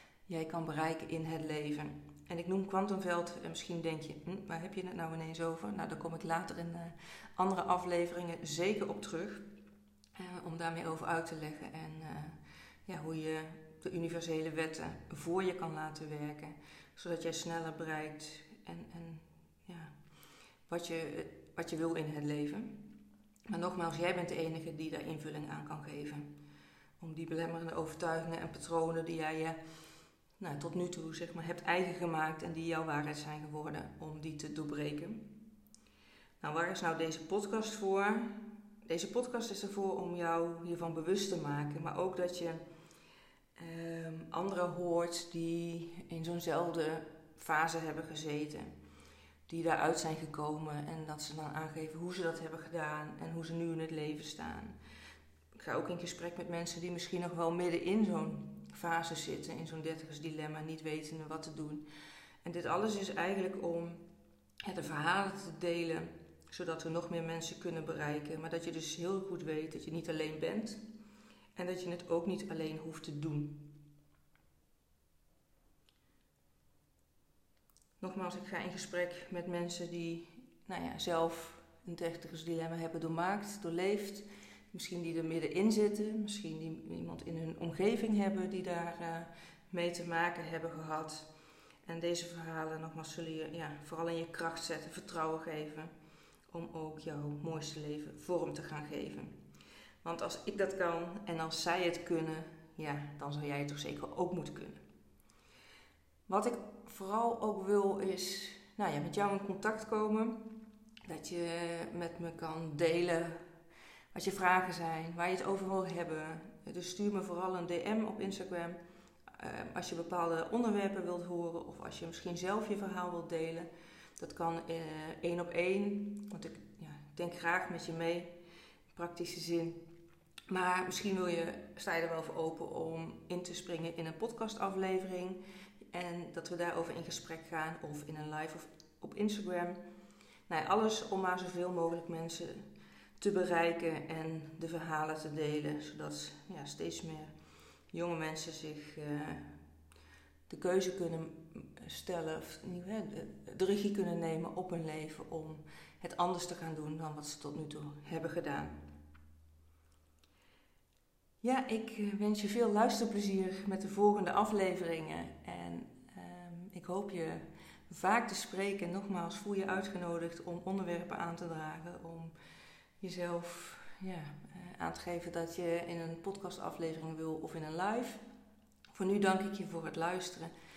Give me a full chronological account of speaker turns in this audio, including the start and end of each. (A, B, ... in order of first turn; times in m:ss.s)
0:00.3-0:09.5 A
0:10.1-0:19.9 A
0:20.7-0:22.9 A
0:23.5-0:26.3 A
0:27.0-0:29.6 A
0:30.4-0:35.4 A
0:36.4-0:42.6 A
0:43.6-0:48.7 A
0:49.5-0:54.8 A
0:55.5-1:01.8 A
1:02.4-1:04.0 A
1:04.6-1:10.8 A
1:11.5-1:13.7 A
1:18.0-1:31.3 A
1:31.8-1:35.9 A
1:36.5-1:39.4 A
1:40.0-1:44.8 A
1:46.3-1:53.4 A
1:54.1-2:08.3 A
2:08.9-2:09.9 A
2:10.5-2:19.8 A
2:20.5-2:27.3 A
2:27.9-2:29.6 A
2:30.5-2:38.8 A
2:41.4-2:52.3 A
2:53.0-2:58.2 A
2:58.9-3:00.5 A